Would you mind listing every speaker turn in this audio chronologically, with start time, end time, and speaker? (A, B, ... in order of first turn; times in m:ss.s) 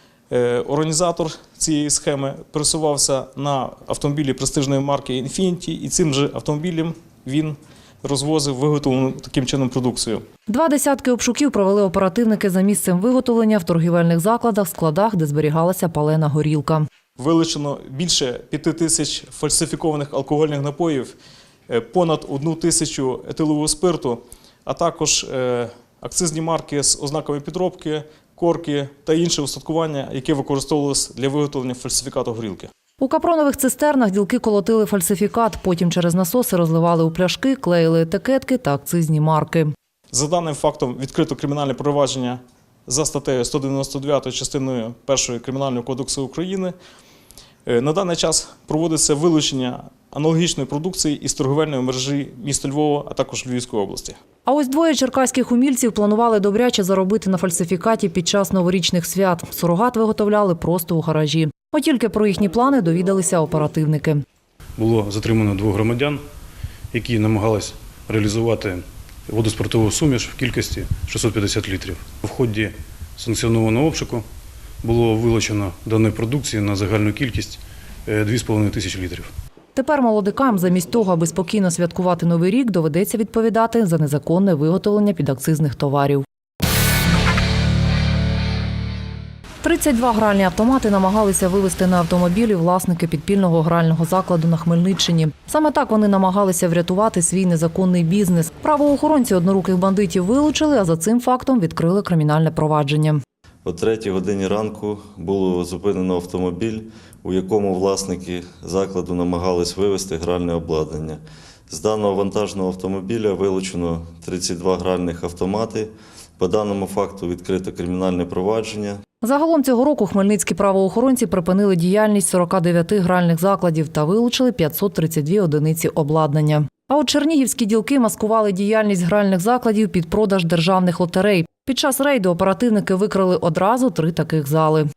0:00.3-0:10.2 A
0:10.5-0:16.8 B
0:17.2-0:21.1 A
0:21.7-0:32.7 A
0:33.0-0:39.7 B
0:40.1-0:46.7 A
0:47.7-0:54.2 A
0:54.4-1:04.2 B
1:04.8-1:06.2 C
1:06.9-1:14.2 C
1:14.8-1:19.3 C
1:19.7-1:26.2 B
1:29.6-1:43.2 B
1:43.6-1:59.0 D
1:59.2-2:14.9 B